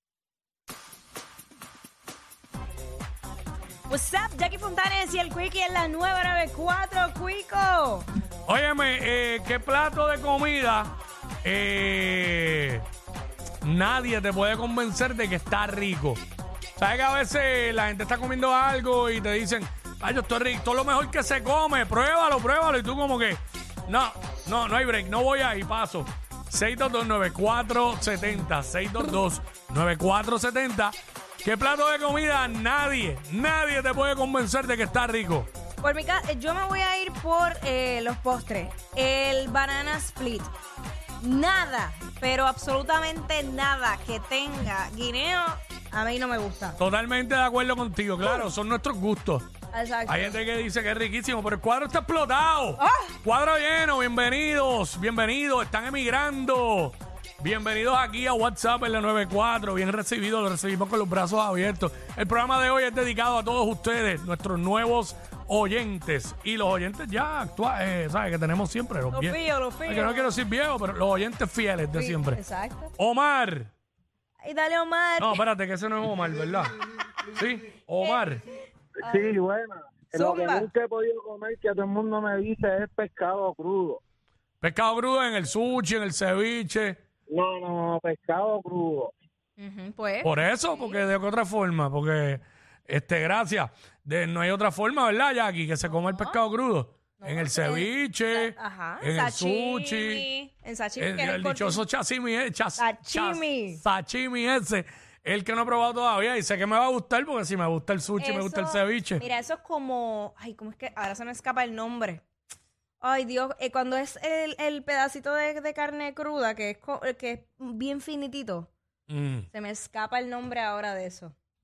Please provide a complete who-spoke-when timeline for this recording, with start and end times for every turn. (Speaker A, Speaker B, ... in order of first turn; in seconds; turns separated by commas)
Speaker A: 3.9-8.1, Speaker B: 8.5-12.8, Speaker B: 13.6-16.2, Speaker B: 16.8-35.5, Speaker A: 35.8-40.5, Speaker A: 41.2-46.8, Speaker B: 46.8-49.5, Speaker A: 49.7-50.4, Speaker B: 50.1-72.4, Speaker A: 52.8-53.1, Speaker A: 69.1-70.4, Speaker A: 71.9-72.9, Speaker B: 73.0-73.7, Speaker A: 74.4-75.4, Speaker B: 75.2-76.8, Speaker B: 77.3-78.4, Speaker A: 78.0-78.4, Speaker A: 79.0-79.3, Speaker C: 79.1-79.4, Speaker A: 80.1-80.7, Speaker C: 80.4-83.8, Speaker B: 84.6-87.0, Speaker C: 87.6-88.7, Speaker A: 89.6-90.9, Speaker B: 90.2-100.2, Speaker A: 95.9-96.4, Speaker A: 97.2-101.8, Speaker B: 101.0-109.2, Speaker A: 102.8-103.8, Speaker A: 108.2-112.2, Speaker A: 113.0-118.7, Speaker B: 119.1-119.5, Speaker A: 119.5-121.3